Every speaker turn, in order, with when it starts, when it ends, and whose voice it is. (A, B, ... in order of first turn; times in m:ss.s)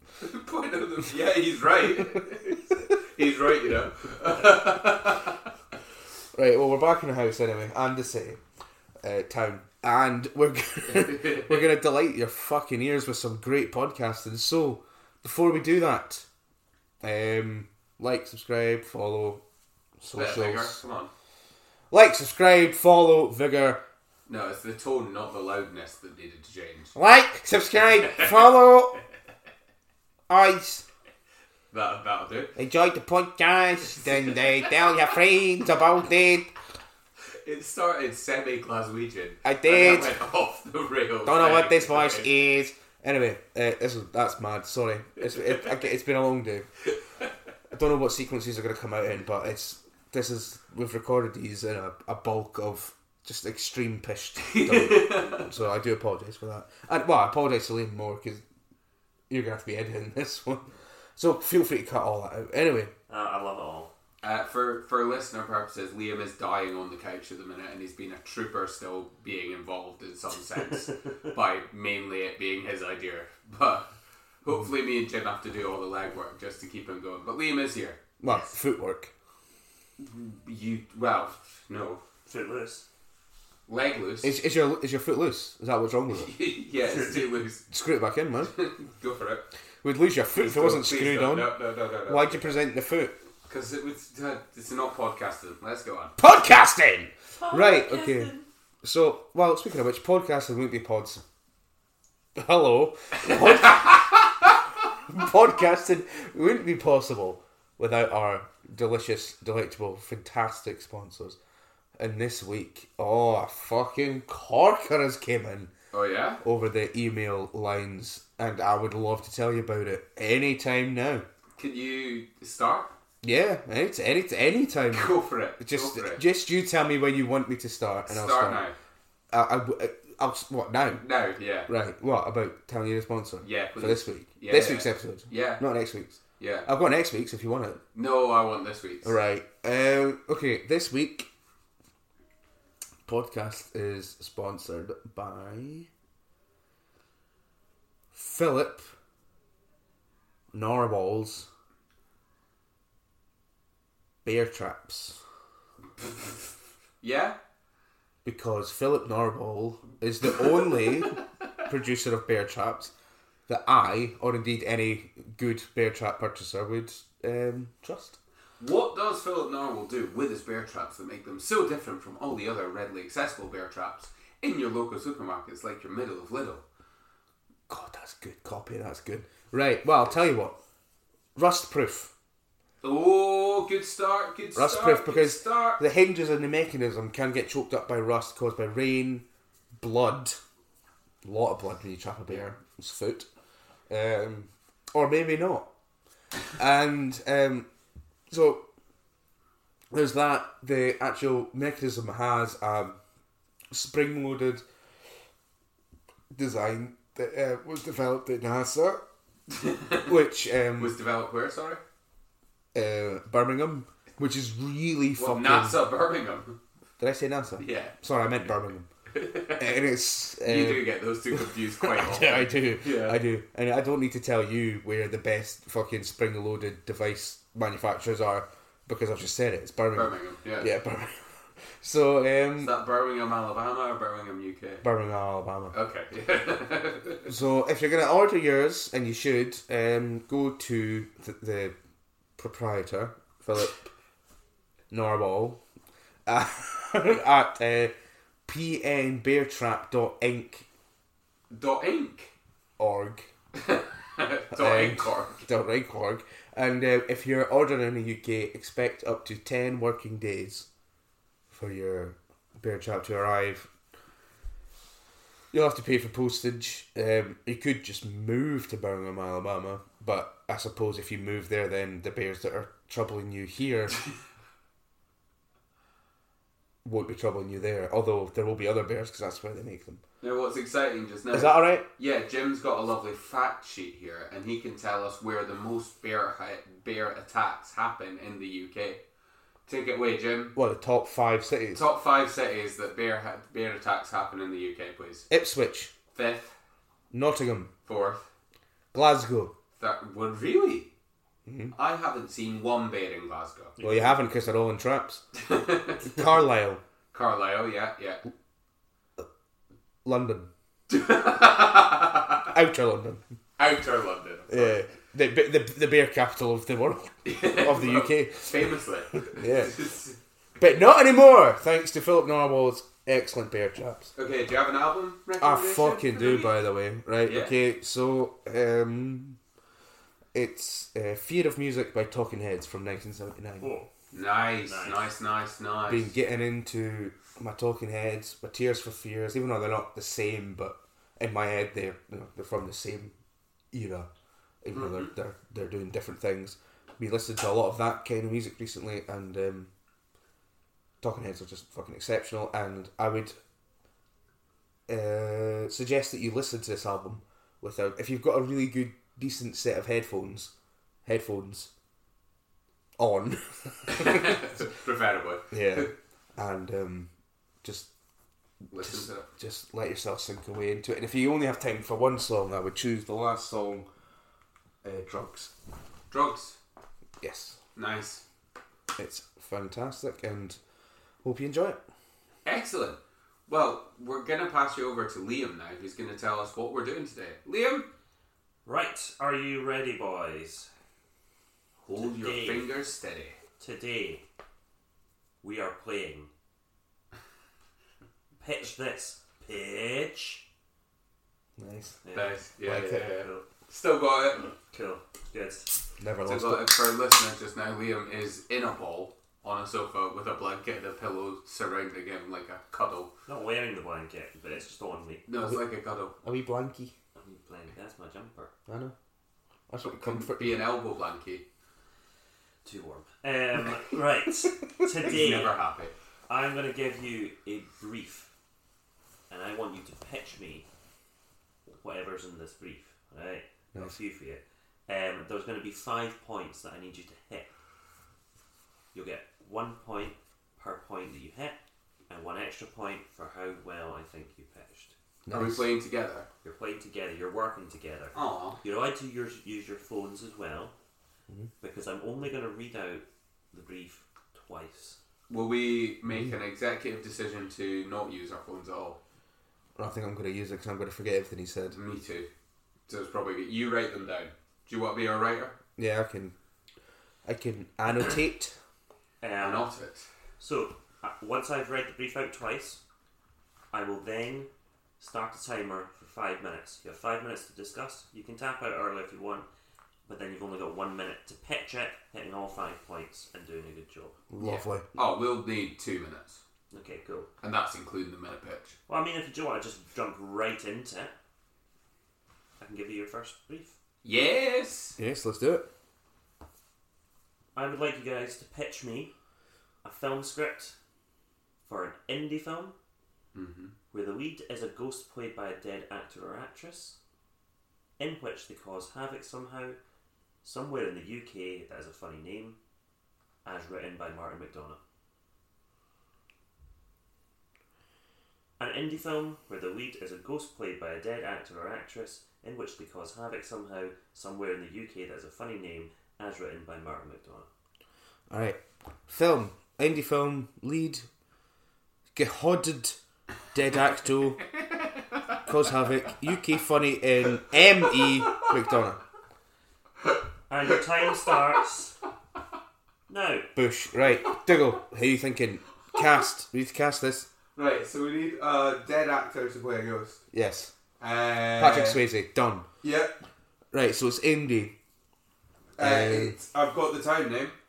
0:00.2-0:05.4 A
0:06.3-0:08.4 B
0:09.0-0:16.3 B
0:17.0-0:19.4 B
0:20.0-0:20.8 B
0:20.1-0:21.1 A
0:21.9-0:23.8 B
0:24.3-0:27.0 A
0:26.9-0:28.9 B
0:28.0-0:28.4 A
0:30.3-0:30.8 B
0:31.7-0:32.5 A
0:32.6-0:36.5 B
0:34.0-0:34.5 A
0:37.4-0:42.3 A
0:39.4-0:40.1 B
0:41.2-0:46.7 B
0:47.7-0:58.4 B
0:54.4-0:55.5 A
0:59.3-1:02.9 B
1:03.1-1:03.9 C
1:04.2-1:13.9 A
1:14.4-1:18.0 A
1:18.2-1:19.1 B
1:20.0-1:22.0 A
1:22.2-1:22.8 C
1:23.7-1:24.3 A
1:24.2-1:26.3 B
1:26.1-1:27.6 A
1:26.8-1:27.4 C
1:27.7-1:28.5 B
1:28.4-1:29.5 A
1:29.8-1:31.5 B
1:30.3-1:32.5 A
1:32.1-1:33.1 B
1:33.5-1:36.1 A
1:36.2-1:41.2 B
1:37.4-1:38.4 C
1:42.3-1:44.0 B
1:45.1-1:51.4 B
1:52.0-1:55.7 B
1:55.9-1:56.4 A
1:56.4-2:01.2 B
2:01.6-2:02.9 A
2:03.2-2:08.6 B
2:04.9-2:06.2 A
2:08.1-2:08.7 A
2:09.3-2:11.0 B
2:11.0-2:11.7 A
2:11.7-2:17.8 B
2:13.4-2:15.6 A
2:16.4-2:16.7 A
2:17.9-2:19.2 A
2:19.0-2:21.3 B
2:23.0-2:25.9 B
2:28.1-2:28.9 B
2:30.5-2:31.5 B
2:34.2-2:35.2 B
2:36.0-2:36.4 A
2:37.0-2:37.4 A
2:38.2-2:42.9 B
2:43.5-2:48.2 B
2:48.6-2:56.6 A
2:57.7-3:00.6 B
3:01.4-3:02.1 B
3:02.8-3:05.8 A
3:04.6-3:09.2 B
3:09.8-3:10.4 B
3:11.2-3:13.3 B
3:13.9-3:15.7 B
3:16.5-3:17.7 B
3:18.3-3:18.6 B
3:19.9-3:23.0 B
3:23.7-3:24.6 B
3:26.3-3:29.0 B
3:29.5-3:30.2 A
3:30.0-3:31.0 B
3:30.8-3:31.8 A
3:32.7-3:35.8 B
3:35.2-3:36.6 A
3:37.0-3:38.9 B
3:37.6-3:37.9 A
3:39.1-3:39.8 A
3:39.6-3:52.7 B
3:40.4-3:43.2 A
3:49.9-3:50.7 A
3:52.6-3:54.8 A
3:54.8-3:55.7 B
3:55.7-3:57.3 A
3:57.2-4:01.7 B
4:02.4-4:03.8 B
4:04.9-4:05.6 B
4:06.2-4:07.9 B
4:08.4-4:10.6 B
4:11.5-4:12.3 A
4:12.8-4:13.3 B
4:13.6-4:15.5 A
4:14.5-4:20.7 B
4:21.5-4:23.7 B
4:25.5-4:34.0 B
4:36.8-4:40.0 B
4:40.2-4:49.0 A
4:41.3-4:41.8 B
4:49.7-4:50.6 A
4:50.5-4:51.8 B
4:51.7-4:55.3 A
4:55.3-4:55.9 B
4:56.1-4:56.5 A
4:57.1-4:57.7 B
4:57.8-4:58.3 A
4:58.9-4:59.5 B
4:59.8-5:00.9 A
5:01.4-5:01.7 B
5:01.7-5:03.7 A
5:03.8-5:04.2 C
5:03.8-5:05.2 B
5:05.3-5:06.1 A
5:06.0-5:06.8 B
5:07.1-5:08.2 A
5:10.0-5:10.5 B
5:10.9-5:12.5 A
5:12.5-5:13.2 B
5:13.6-5:14.8 A
5:14.5-5:19.8 B
5:17.2-5:20.2 A
5:20.6-5:24.1 B
5:24.2-5:26.6 A
5:25.4-5:29.4 B
5:27.2-5:27.5 A
5:30.3-5:33.7 B
5:33.6-5:33.9 C
5:34.1-5:36.1 A
5:34.6-5:35.1 C
5:35.9-5:43.1 B
5:43.7-5:44.1 B
5:44.6-5:49.7 B
5:44.7-5:45.1 A
5:51.0-5:53.3 B
5:54.9-6:00.5 B
6:01.0-6:01.7 B
6:03.0-6:04.4 B
6:03.9-6:05.9 A
6:05.5-6:07.1 B
6:07.6-6:07.9 B
6:08.7-6:09.3 A
6:08.7-6:13.8 B
6:14.8-6:15.5 B
6:16.1-6:16.6 A
6:17.2-6:17.6 B
6:17.8-6:18.2 A
6:19.0-6:20.6 B
6:21.2-6:21.8 B
6:22.4-6:27.9 A
6:28.6-6:30.7 C
6:31.8-6:33.4 A
6:31.9-6:32.7 C
6:33.6-6:34.2 C
6:35.4-6:36.3 C
6:38.4-6:40.4 C
6:41.6-6:42.0 B
6:42.0-6:42.4 C
6:42.1-6:44.5 A
6:42.6-6:43.1 B
6:43.2-6:43.4 C
6:44.6-6:45.8 C
6:46.0-6:46.7 B
6:46.2-6:53.1 A
6:53.3-6:55.2 C
6:55.3-6:56.1 A
6:56.2-6:56.9 B
6:57.1-6:58.5 C
6:58.7-6:58.9 B
6:59.7-7:00.6 B
6:59.8-7:01.4 A
7:02.6-7:05.6 C
7:05.0-7:05.9 A
7:06.3-7:08.3 C
7:09.3-7:10.6 C
7:11.7-7:17.5 C
7:18.9-7:21.6 C
7:22.1-7:24.9 C
7:25.2-7:25.6 B
7:25.3-7:26.3 A
7:26.4-7:30.7 C
7:28.1-7:28.6 A
7:31.6-7:35.0 C
7:35.3-7:39.0 A
7:36.1-7:36.4 B
7:39.8-7:41.8 B
7:41.7-7:42.3 A
7:42.9-7:45.5 A
7:45.8-7:46.3 B
7:47.2-7:48.6 B
7:49.2-7:49.7 C
7:49.4-7:50.1 A
7:50.4-7:52.8 C
7:53.7-7:59.4 C
8:00.0-8:04.2 C
8:04.3-8:04.8 B
8:04.4-8:06.4 A
8:06.7-8:07.3 C
8:07.4-8:08.8 A
8:08.9-8:11.1 C
8:12.6-8:13.8 C
8:14.0-8:15.0 A
8:15.0-8:15.7 B
8:17.5-8:19.1 C
8:19.8-8:20.8 C
8:21.6-8:22.7 C
8:23.3-8:23.7 A
8:23.9-8:27.0 C
8:28.0-8:29.8 C
8:30.4-8:32.6 C
8:33.4-8:34.8 C
8:38.6-8:47.5 C
8:48.3-8:51.0 B
8:52.1-8:53.0 B
8:53.5-8:54.4 B
8:55.4-8:59.0 B
8:57.9-8:58.6 A
9:00.5-9:02.0 C
9:03.1-9:03.5 C
9:03.5-9:07.3 B
9:07.5-9:10.2 A
9:10.3-9:10.7 B
9:11.0-9:12.0 A
9:11.6-9:12.6 B
9:12.8-9:13.1 A
9:13.7-9:14.7 B
9:15.8-9:17.5 A
9:15.8-9:16.4 B